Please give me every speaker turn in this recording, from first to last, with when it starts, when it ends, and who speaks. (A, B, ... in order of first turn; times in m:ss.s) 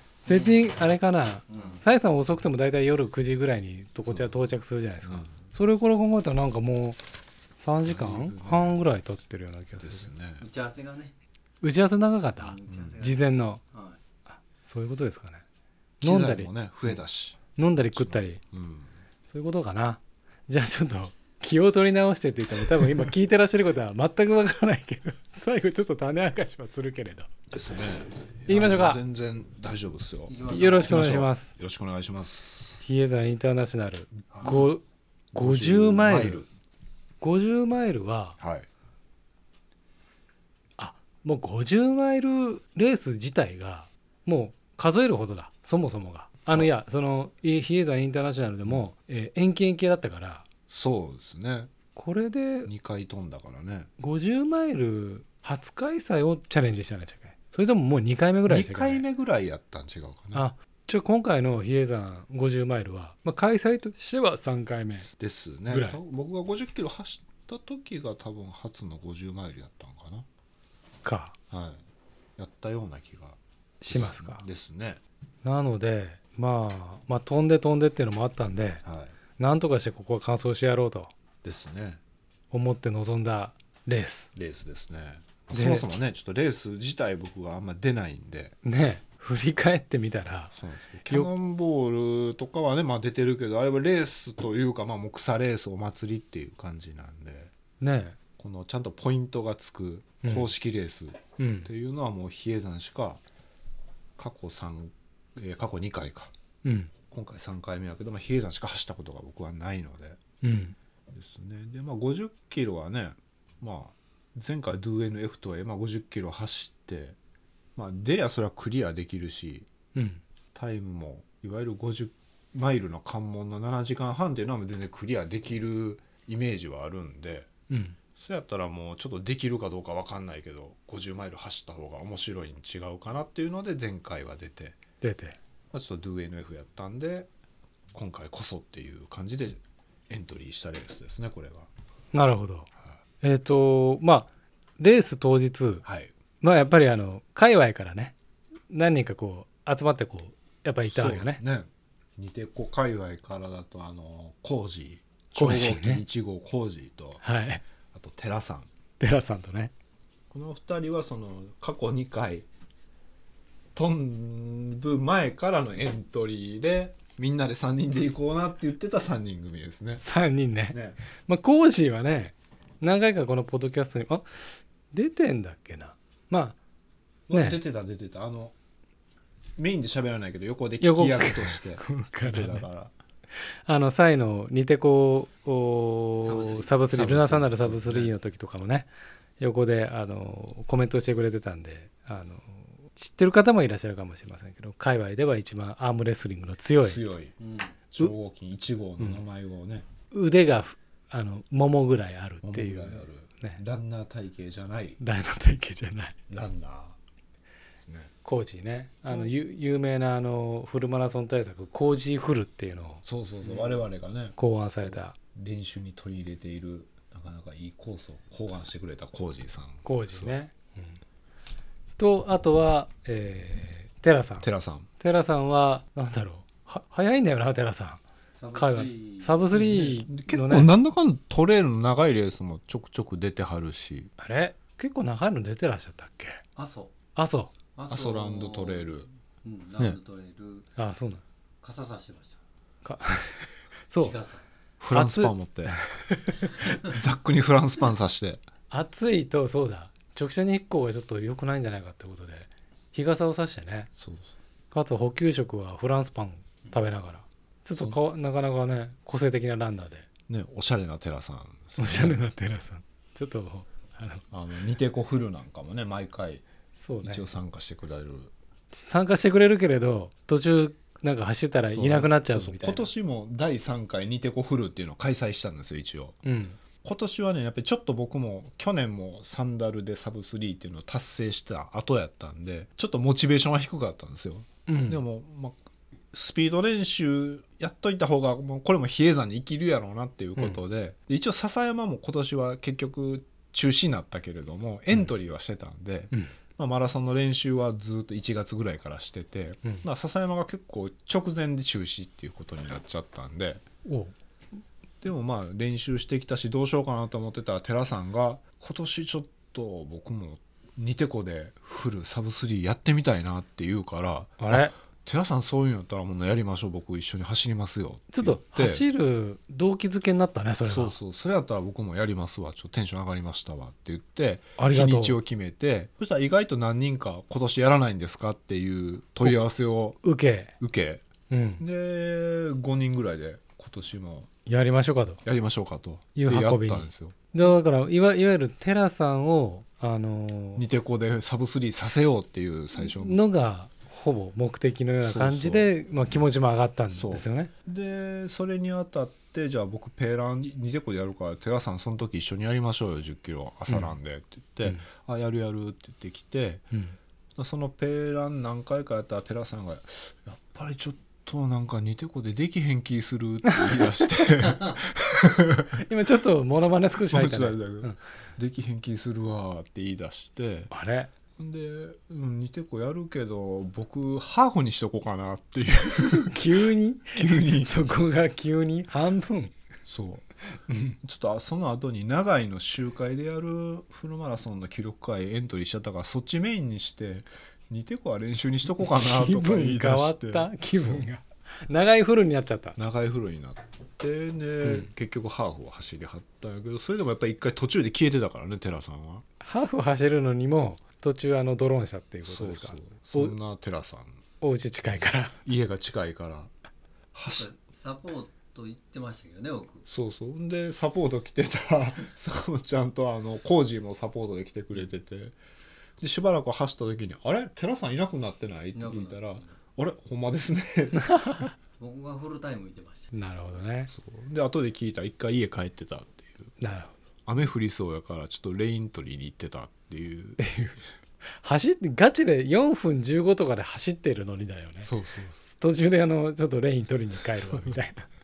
0:00.2-0:07.0 A
0:00.3-0:00.7 B
0:01.5-0:01.8 B
0:01.6-0:01.8 C
0:04.1-0:04.5 C
0:05.0-0:05.3 C
0:07.6-0:10.1 A
0:07.8-0:08.8 C
0:09.8-0:10.4 C
0:10.4-0:11.1 B
0:11.6-0:13.6 A
0:12.4-0:14.0 B
0:12.7-0:13.0 C
0:14.3-0:15.4 A
0:16.0-0:18.9 C
0:16.0-0:16.5 A
0:17.6-0:18.4 A
0:19.3-0:27.3 A
0:27.5-0:32.8 C
0:28.5-0:29.0 A
0:30.3-0:31.2 B
0:30.5-0:31.5 A
0:32.8-0:34.8 A
0:34.3-0:34.7 C
0:35.3-0:36.5 C
0:35.3-0:36.4 A
0:37.2-0:38.4 A
0:38.4-0:38.7 C
0:40.8-0:50.4 A
0:50.7-0:51.7 C
0:51.9-0:52.7 A
0:52.6-0:53.9 C
0:54.0-0:59.0 A
0:58.5-1:00.4 C
1:00.3-1:05.1 A
1:05.1-1:10.2 C
1:05.7-1:06.0 A
1:11.0-1:11.3 A
1:11.5-1:11.8 C
1:12.4-1:13.4 C
1:13.8-1:14.4 A
1:13.9-1:15.0 C
1:15.4-1:18.8 A
1:18.8-1:19.1 C
1:19.4-1:21.1 A
1:21.4-1:22.0 C
1:22.5-1:24.3 A
1:24.3-1:28.5 C
1:25.5-1:25.9 A
1:28.6-1:30.5 A
1:30.5-1:37.5 C
1:31.0-1:31.3 A
1:37.8-1:38.2 A
1:38.4-1:43.2 C
1:40.2-1:40.5 A
1:41.4-1:41.7 A
1:44.2-1:46.3 C
1:46.6-1:46.9 A
1:47.1-1:50.2 C
1:50.4-1:50.8 A
1:51.1-1:57.2 C
1:57.8-1:59.7 C
1:59.9-2:00.2 A
2:00.5-2:07.5 C
2:07.7-2:08.0 A
2:08.2-2:14.8 C
2:15.0-2:15.4 A
2:15.7-2:17.3 C
2:17.9-2:21.7 C
2:22.1-2:22.7 A
2:23.2-2:25.8 A
2:25.8-2:26.1 C
2:26.4-2:28.1 A
2:28.7-2:31.4 A
2:30.8-2:37.2 C
2:35.3-2:36.0 A
2:37.2-2:37.6 A
2:37.9-2:38.7 C
2:39.0-2:39.7 A
2:40.3-2:42.4 C
2:43.7-2:50.0 C
2:50.0-2:56.6 A
2:50.7-2:51.0 C
2:57.3-2:58.5 C
2:57.3-2:57.6 A
2:59.6-3:02.9 C
3:00.8-3:02.7 A
3:03.3-3:08.9 A
3:06.2-3:08.1 C
3:09.4-3:17.0 A
3:16.8-3:17.3 C
3:17.4-3:17.7 B
3:17.9-3:19.9 C
3:20.1-3:23.6 A
3:22.4-3:25.0 C
3:25.0-3:26.2 A
3:26.3-3:27.0 C
3:27.7-3:28.1 C
3:28.2-3:33.0 A
3:33.0-3:40.3 C
3:34.4-3:35.2 A
3:39.8-3:41.0 A
3:42.0-3:44.5 A
3:44.4-3:44.9 C
3:45.0-3:48.0 A
3:48.3-3:49.4 B
3:48.5-3:50.7 A
3:49.5-3:54.1 C
3:54.2-3:56.4 A
3:56.6-3:56.9 B
3:57.2-3:57.5 A
3:57.7-4:00.7 B
3:57.9-3:59.1 C
4:00.8-4:01.2 A
4:01.6-4:02.4 B
4:02.8-4:04.2 A
4:04.0-4:04.4 B
4:04.8-4:05.8 C
4:04.9-4:06.5 A
4:06.8-4:08.4 C
4:08.7-4:13.9 A
4:14.0-4:14.3 C
4:14.7-4:20.1 A
4:20.3-4:22.2 C
4:21.8-4:24.2 A
4:24.3-4:26.4 C
4:26.8-4:27.2 A
4:27.0-4:28.3 C
4:28.7-4:32.9 A
4:31.7-4:36.2 C
4:36.2-4:36.6 A
4:36.8-4:45.6 C
4:44.7-4:45.0 A
4:46.1-5:03.6 C
5:03.8-5:04.1 A
5:05.0-5:18.8 C
5:14.4-5:14.7 A
5:18.1-5:20.9 A
5:20.6-5:30.0 C
5:24.6-5:25.2 A
5:30.0-5:30.5 A
5:30.6-5:31.0 C
5:31.3-5:31.6 A
5:31.6-5:34.3 C
5:34.4-5:35.2 A
5:35.2-5:37.2 C
5:36.1-5:40.6 A
5:40.6-5:43.2 C
5:42.7-5:47.5 A
5:45.0-5:45.7 C
5:46.9-5:56.6 C
5:53.7-5:53.9 A
5:57.4-6:05.8 C
6:05.8-6:08.0 A
6:07.1-6:10.7 C
6:10.7-6:11.1 A
6:11.4-6:16.5 C
6:16.1-6:19.5 A
6:17.1-6:17.9 C
6:19.8-6:20.2 C
6:20.7-6:21.0 A
6:21.0-6:31.0 C
6:28.8-6:32.8 A
6:32.8-6:39.2 C
6:39.4-6:43.4 A
6:42.2-6:44.2 C
6:44.4-6:45.4 A
6:45.4-6:46.5 C
6:47.1-6:47.5 C
6:47.2-6:49.8 B
6:49.9-6:55.4 C
6:56.0-7:01.1 C
6:58.7-6:59.5 B
7:01.0-7:01.5 A
7:01.8-7:03.1 B
7:03.1-7:03.9 A
7:03.9-7:06.5 C
7:06.6-7:07.0 A
7:07.2-7:10.4 C
7:10.4-7:14.9 A
7:14.8-7:15.4 C
7:15.4-7:18.0 A
7:17.4-7:17.7 C